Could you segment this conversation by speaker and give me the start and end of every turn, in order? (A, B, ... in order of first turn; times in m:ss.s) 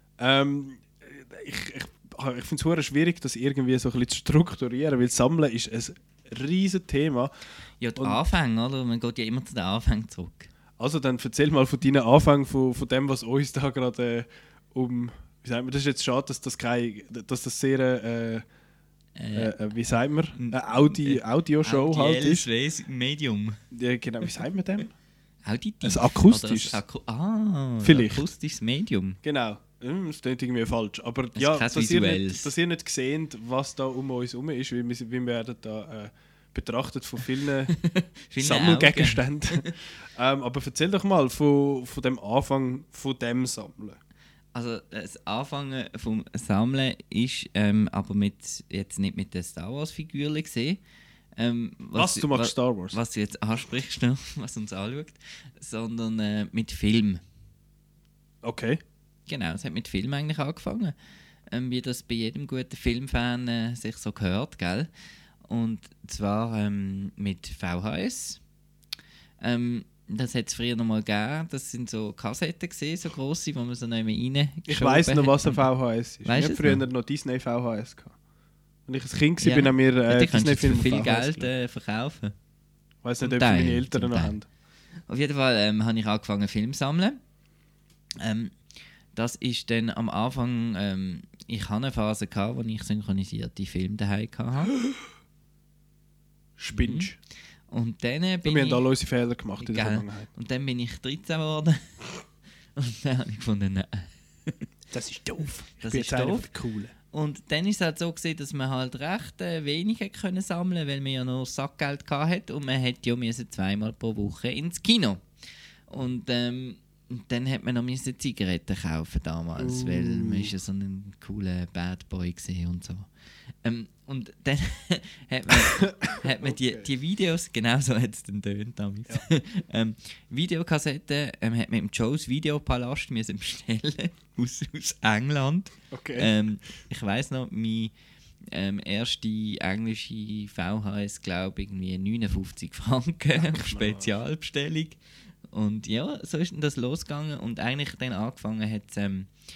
0:00.2-0:07.3 A
0:07.8-0:10.5 B
0:10.8-0:18.4 A
0:19.2-0:19.5 B
0:19.3-0:22.4 A
0:20.4-0:23.6 B
0:23.7-0:24.9 A
0:25.4-0:29.2 B
0:25.8-0:26.8 A
0:27.8-0:28.2 A
0:29.2-0:37.7 A
0:31.3-0:32.5 B
0:37.9-0:39.6 B
0:38.4-0:44.0 A
0:44.5-0:50.8 B
0:51.4-0:57.2 B
0:51.9-0:53.0 A
0:58.4-0:58.8 A
0:59.3-1:00.9 B
1:01.5-1:04.9 B
1:05.4-1:08.4 B
1:09.4-1:15.6 B
1:14.7-1:18.2 A
1:16.2-1:16.8 B
1:18.9-1:21.5 A
1:19.4-1:22.3 B
1:23.0-1:24.5 A
1:23.2-1:24.3 B
1:25.1-1:27.2 B
1:28.2-1:28.6 B
1:29.1-1:34.7 B
1:36.6-1:37.2 A
1:36.7-1:37.1 B
1:37.7-1:38.8 B
1:38.4-1:40.3 A
1:39.6-1:42.0 B
1:42.7-1:44.7 B
1:44.9-1:46.9 A
1:45.8-1:46.5 B
1:47.1-1:55.2 B
1:55.9-2:03.1 B
1:59.6-2:00.5 A
2:03.6-2:17.9 B
2:05.5-2:06.9 A
2:15.9-2:16.3 A
2:18.5-2:25.0 B
2:23.4-2:24.1 A
2:25.5-2:29.3 B